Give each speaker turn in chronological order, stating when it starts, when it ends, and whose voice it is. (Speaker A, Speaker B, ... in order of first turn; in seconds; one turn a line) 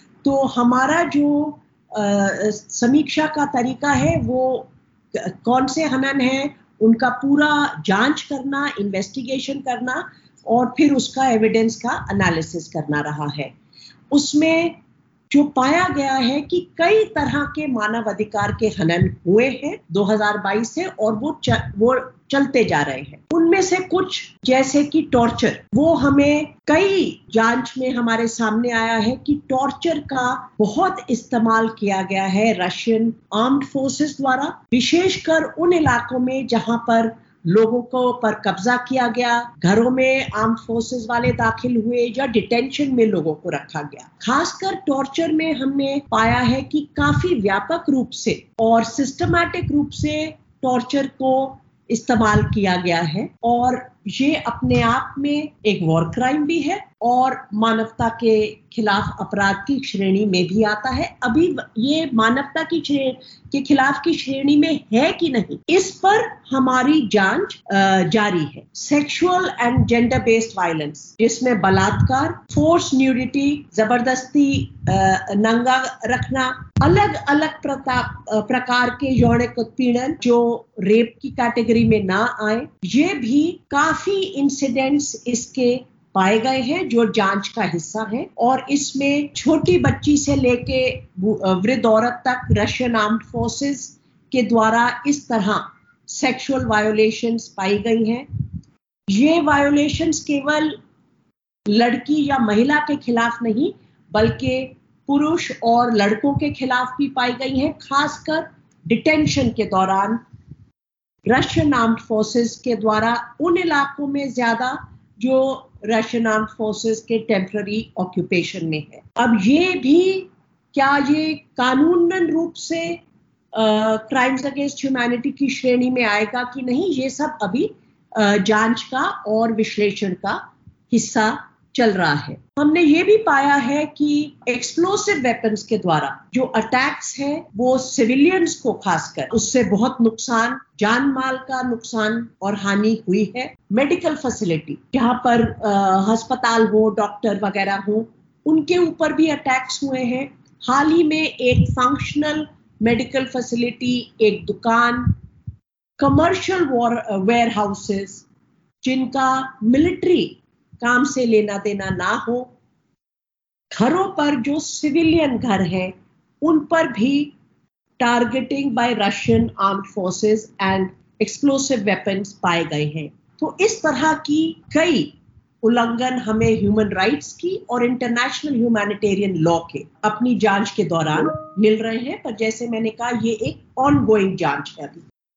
Speaker A: 0.2-13.5
Speaker A: 14.1-14.8
Speaker A: 15.3-98.2
Speaker A: 99.1-100.8
Speaker A: 101.7-110.2
Speaker A: 111.3-123.0
Speaker A: 123.5-155.2
Speaker A: 156.0-158.2
Speaker A: 158.8-162.5
Speaker A: 163.7-167.3
Speaker A: 168.0-185.0